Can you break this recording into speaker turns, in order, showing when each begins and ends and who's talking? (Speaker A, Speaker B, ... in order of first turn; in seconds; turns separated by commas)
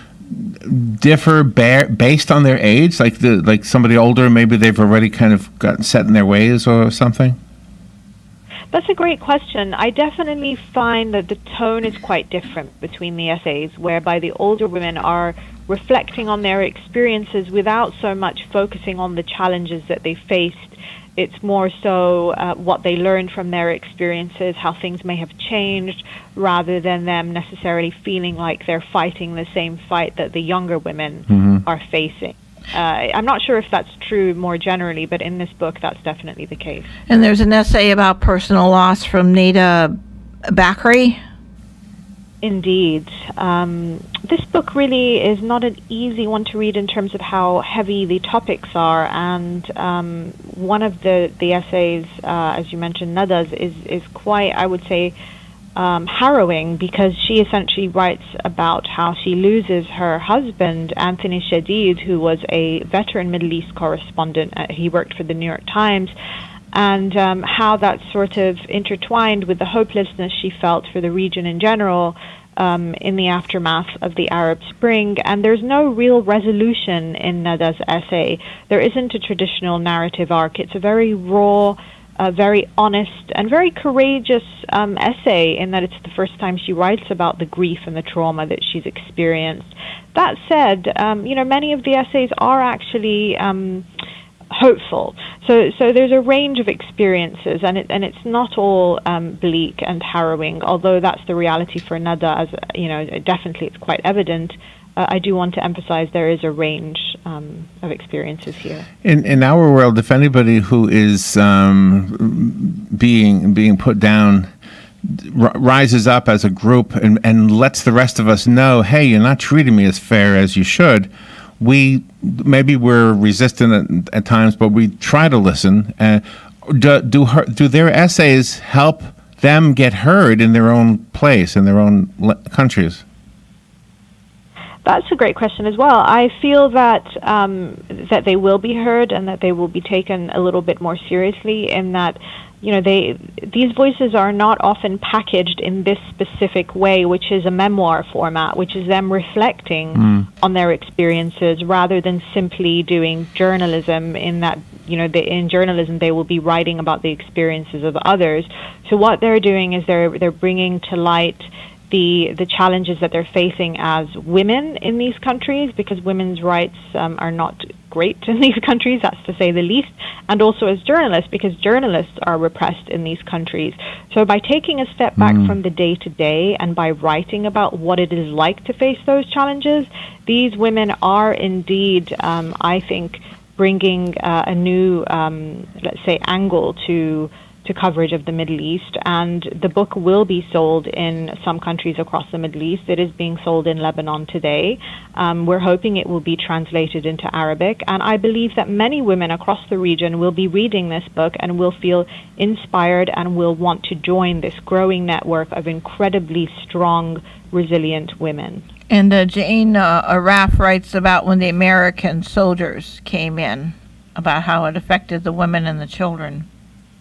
Speaker A: 0.3-7.4, Speaker B: 8.7-36.9, Speaker A: 31.3-31.6, Speaker C: 37.1-40.0, Speaker C: 40.5-41.2, Speaker B: 42.4-55.1, Speaker B: 55.8-66.1, Speaker B: 66.7-93.9, Speaker B: 94.5-108.9, Speaker A: 109.0-114.5, Speaker A: 115.0-133.0, Speaker B: 134.8-208.7, Speaker A: 175.2-175.5, Speaker C: 208.9-216.5